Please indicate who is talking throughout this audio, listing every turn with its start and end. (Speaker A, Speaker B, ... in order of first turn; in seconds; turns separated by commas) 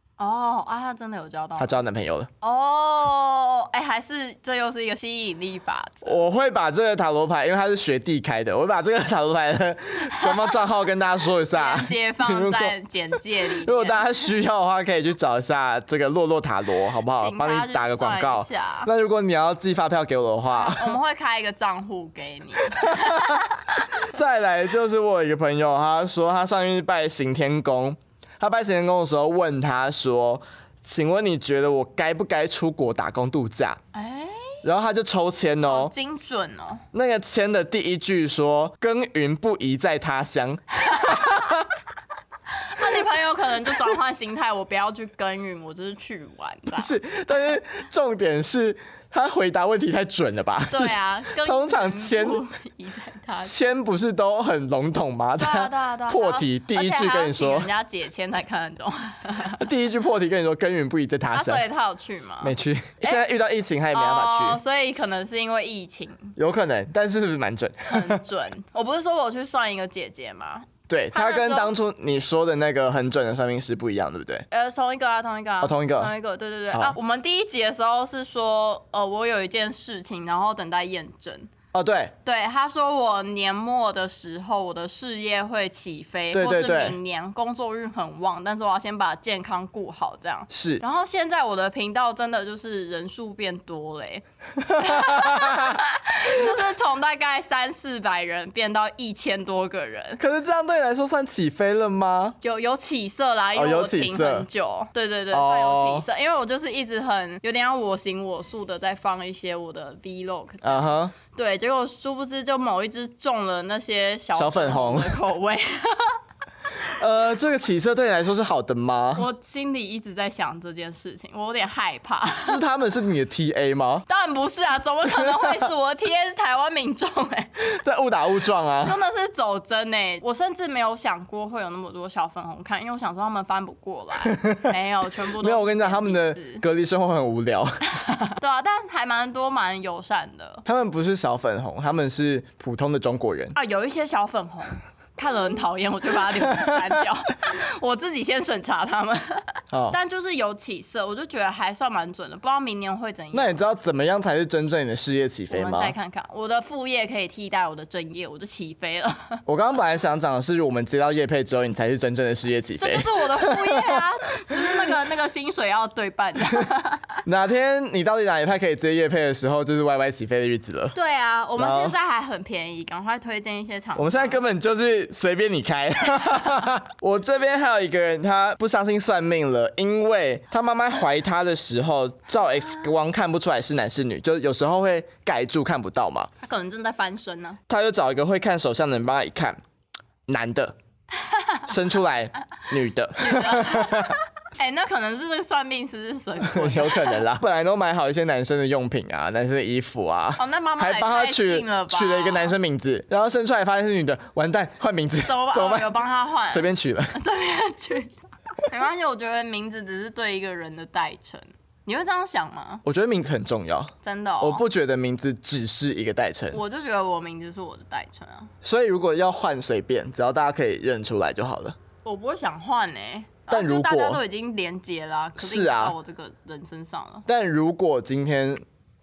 Speaker A: 0.2-1.8, Speaker B: 1.6-2.3, Speaker A: 2.4-6.2, Speaker B: 6.0-12.7, Speaker A: 10.1-10.6, Speaker A: 11.5-14.2, Speaker B: 13.6-20.9, Speaker A: 17.2-18.9, Speaker A: 20.6-24.0, Speaker B: 22.8-23.4, Speaker B: 24.0-33.8, Speaker A: 33.9-34.6, Speaker B: 34.6-35.9, Speaker A: 35.6-36.8, Speaker B: 36.9-41.7, Speaker A: 41.0-41.3, Speaker A: 42.5-46.9, Speaker B: 46.8-52.4, Speaker A: 50.7-53.5, Speaker B: 53.4-57.7, Speaker A: 55.4-59.6, Speaker B: 59.6-61.6, Speaker A: 61.3-63.2, Speaker B: 62.4-64.6, Speaker A: 63.9-66.3, Speaker B: 66.4-68.2, Speaker A: 67.9-71.7, Speaker B: 70.9-74.4, Speaker A: 74.5-81.5, Speaker B: 75.6-76.1, Speaker B: 81.7-82.1, Speaker A: 82.2-100.2, Speaker B: 86.3-87.0, Speaker B: 90.5-90.8, Speaker B: 94.6-95.8, Speaker B: 100.2-102.4, Speaker A: 102.4-116.2, Speaker B: 103.5-104.5, Speaker B: 105.3-106.0, Speaker B: 110.6-111.1, Speaker B: 114.3-115.2, Speaker B: 116.8-119.2, Speaker A: 119.1-122.6, Speaker B: 122.4-124.0, Speaker A: 124.1-127.5, Speaker B: 125.2-125.7, Speaker B: 127.6-129.0, Speaker A: 128.8-136.6, Speaker B: 134.2-134.7, Speaker B: 135.4-137.8, Speaker A: 138.0-140.6, Speaker B: 140.6-143.6, Speaker A: 143.5-153.6, Speaker B: 146.5-146.8, Speaker B: 149.7-150.0, Speaker B: 153.3-155.9, Speaker A: 155.5-159.4, Speaker B: 159.4-164.8, Speaker A: 162.8-167.2, Speaker B: 167.2-170.9, Speaker A: 170.9-174.4, Speaker B: 171.6-171.9, Speaker B: 173.9-186.3, Speaker A: 186.4-187.6, Speaker B: 187.7-189.6, Speaker B: 190.3-190.8, Speaker A: 191.2-191.7, Speaker B: 191.7-194.2, Speaker A: 193.2-197.2, Speaker B: 196.4-205.9, Speaker A: 200.4-202.5, Speaker A: 205.2-212.8, Speaker B: 206.5-207.2, Speaker B: 212.8-216.6, Speaker A: 214.0-214.6, Speaker A: 216.5-218.5, Speaker B: 218.6-221.8, Speaker A: 222.0-227.2, Speaker B: 223.5-224.2, Speaker B: 225.4-225.9, Speaker B: 227.2-228.6